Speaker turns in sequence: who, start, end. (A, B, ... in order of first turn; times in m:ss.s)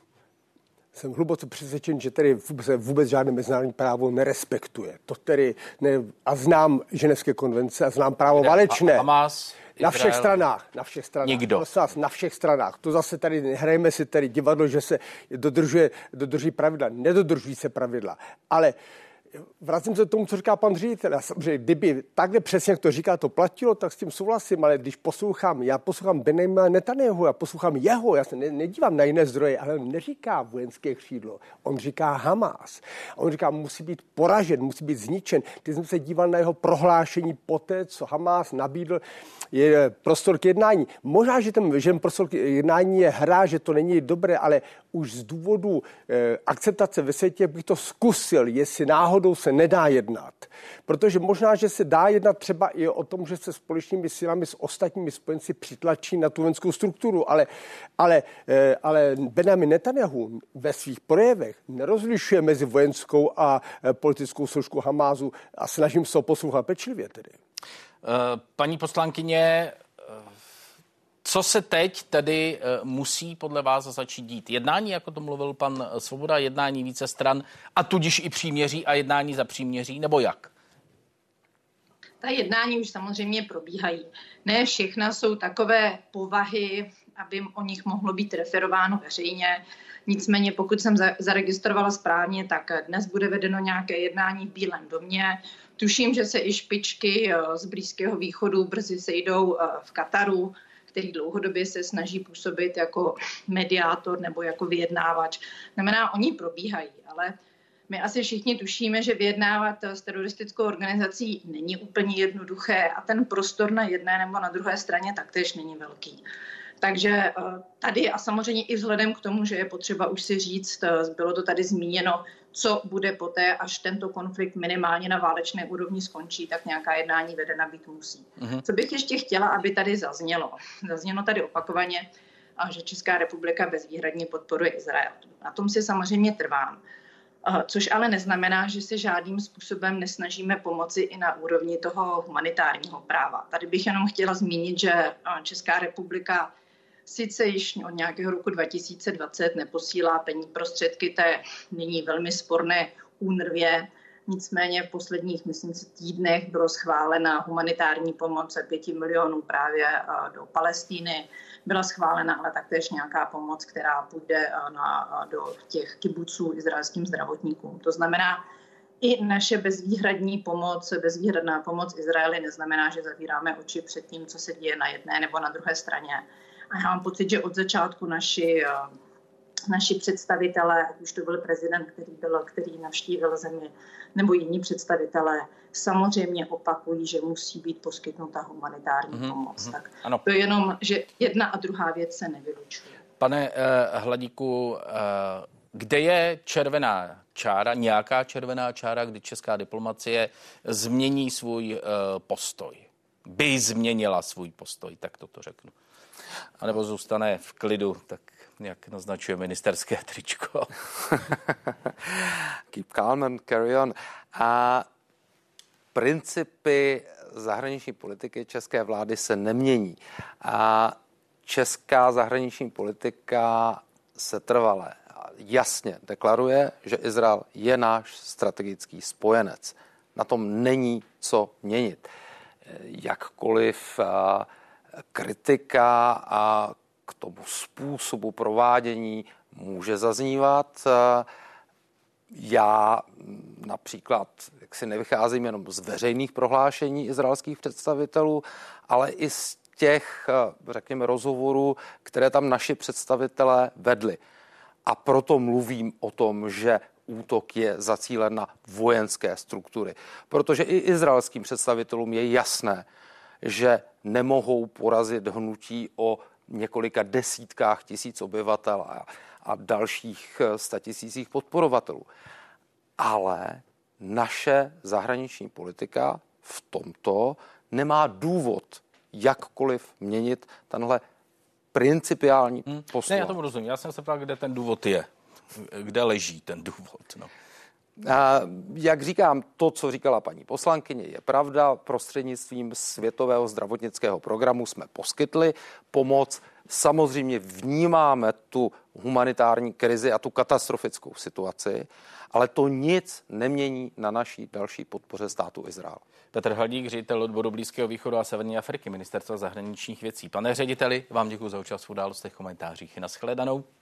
0:00.9-0:09.1 A
0:08.4-0:10.4 B
0:09.8-0:18.8 A
0:11.2-0:11.7 B
0:19.6-1:07.4 A
1:08.0-1:09.8 B
1:11.2-1:20.5 B
1:22.2-1:47.3 C
1:47.9-1:56.2 C
1:56.8-2:12.0 C
2:12.6-2:16.8 C
2:17.4-2:26.5 C
2:27.0-2:48.4 C
2:49.0-2:58.9 C
2:59.7-3:13.0 C
3:09.1-3:10.2 B
3:13.2-3:25.7 B
3:26.6-3:30.7 B
3:32.7-3:34.8 D
3:35.9-3:52.1 D
3:52.7-3:54.5 D
3:55.1-4:01.2 D
4:02.3-4:14.2 D
4:14.8-4:22.8 D
4:23.4-4:32.1 D
4:33.0-4:41.0 D
4:41.7-4:43.4 D
4:42.7-4:47.3 B
4:48.0-5:06.0 D
5:06.3-5:13.6 B